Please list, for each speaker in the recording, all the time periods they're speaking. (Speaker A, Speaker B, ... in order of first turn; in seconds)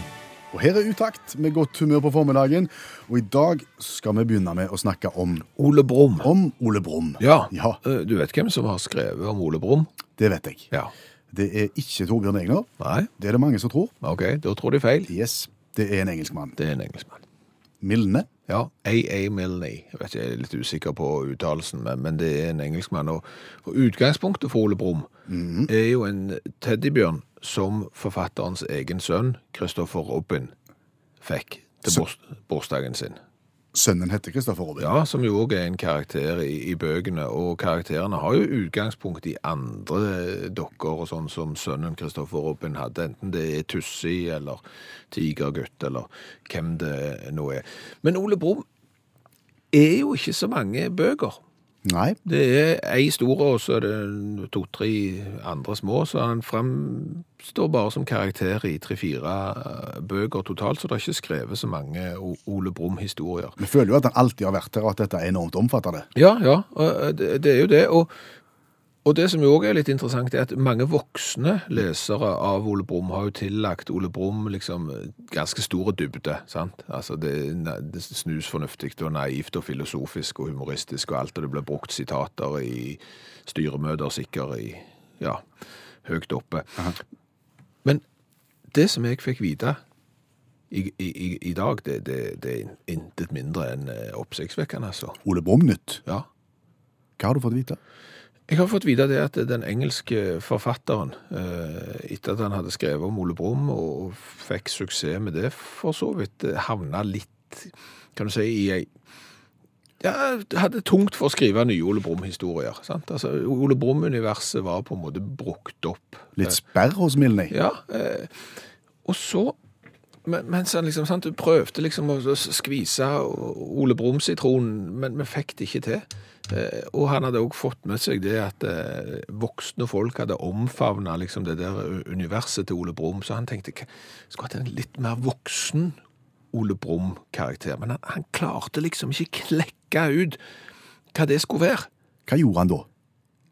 Speaker A: 0.5-5.5, 6.2-7.8, 10.2-10.7, 11.3-13.9, 15.1-16.6, 17.8-18.3, 25.3-25.7, 33.7-35.0, 51.9-52.2, 63.6-66.1, 95.2-96.0, 97.2-97.8, 116.4-117.5, 142.3-142.9
Speaker B: 5.6-6.3, 7.2-9.9, 12.8-13.1, 14.0-15.1, 16.6-17.2, 18.5-25.1, 25.7-30.5, 31.2-33.2, 34.8-48.6, 49.7-51.4, 52.2-63.6, 66.2-68.1, 69.0-85.5, 86.0-86.9, 88.7-89.8, 90.7-95.2, 98.5-108.9, 110.0-116.6, 117.5-118.5, 119.0-119.6, 120.2-136.0, 136.5-140.4, 141.1-141.9